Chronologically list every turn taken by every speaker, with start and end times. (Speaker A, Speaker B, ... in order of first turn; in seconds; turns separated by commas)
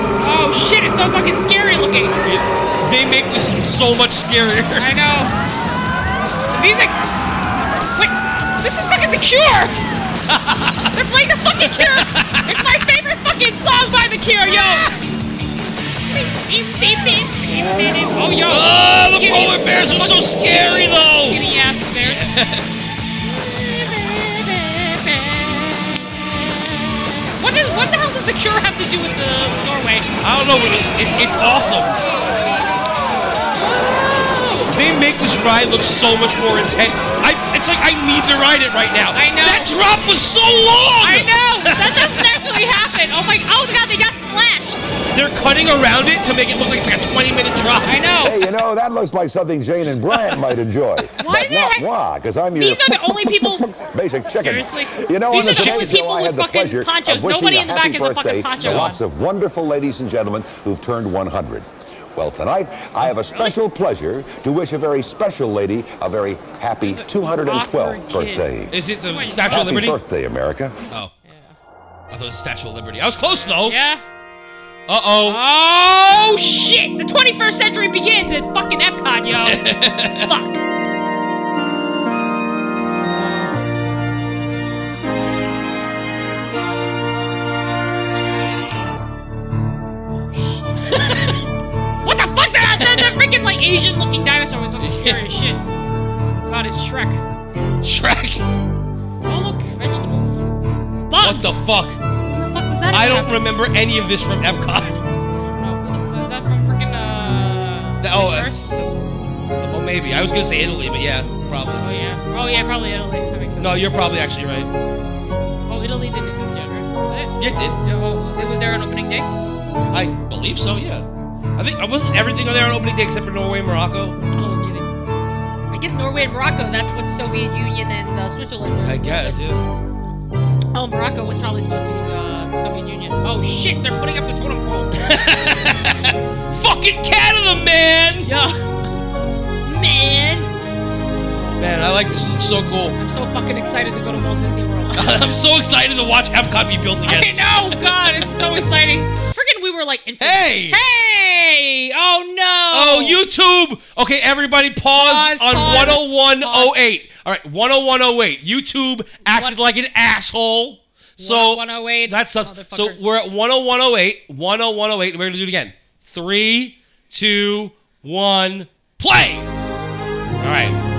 Speaker A: 0.2-2.2, Speaker B: 2.2-4.9, Speaker A: 4.8-5.3, Speaker A: 6.5-7.0, Speaker A: 7.9-9.8, Speaker B: 10.3-10.9, Speaker A: 10.9-14.9, Speaker B: 11.6-12.6, Speaker B: 14.5-15.0, Speaker A: 16.1-22.3, Speaker B: 18.5-21.4, Speaker B: 22.0-22.7, Speaker A: 23.3-26.8, Speaker A: 27.4-34.7, Speaker B: 30.2-32.0, Speaker B: 34.7-42.3, Speaker A: 39.1-39.8, Speaker A: 41.0-44.9, Speaker B: 45.1-48.0, Speaker A: 47.8-48.4, Speaker C: 48.2-68.7, Speaker A: 51.2-51.9, Speaker A: 52.5-53.7, Speaker A: 54.2-59.0, Speaker B: 55.3-56.0, Speaker A: 63.3-63.5, Speaker A: 66.8-69.8, Speaker B: 68.7-70.0, Speaker C: 69.5-70.8, Speaker A: 71.2-71.5, Speaker B: 72.1-73.8, Speaker A: 73.6-74.0, Speaker B: 74.9-75.4, Speaker A: 75.2-79.6, Speaker B: 79.3-80.3, Speaker A: 80.2-80.6, Speaker A: 83.1-83.6, Speaker A: 90.1-90.9, Speaker B: 90.9-91.3, Speaker A: 92.0-95.6, Speaker B: 92.8-93.1, Speaker B: 94.8-95.2, Speaker A: 96.4-97.2, Speaker B: 97.8-98.4, Speaker A: 99.2-100.5, Speaker A: 101.1-101.6, Speaker B: 101.2-102.0, Speaker A: 102.2-103.4, Speaker B: 102.9-105.0, Speaker A: 105.4-108.7, Speaker B: 108.0-108.9, Speaker B: 109.6-111.8, Speaker A: 111.8-113.9, Speaker B: 113.6-114.7, Speaker A: 115.7-119.3, Speaker B: 117.4-117.8, Speaker B: 119.9-121.0, Speaker B: 121.6-124.2, Speaker A: 124.3-124.9, Speaker A: 125.7-129.4, Speaker B: 128.8-129.6, Speaker A: 130.7-134.9, Speaker B: 134.9-138.3, Speaker A: 138.2-138.7, Speaker A: 139.6-140.5, Speaker A: 141.2-141.9, Speaker B: 141.6-142.9, Speaker A: 143.0-145.1, Speaker B: 144.9-147.9, Speaker A: 147.1-153.2, Speaker B: 150.2-150.8, Speaker B: 152.7-169.5, Speaker A: 154.9-156.8, Speaker A: 159.3-159.6, Speaker A: 161.2-163.1, Speaker B: 170.4-170.8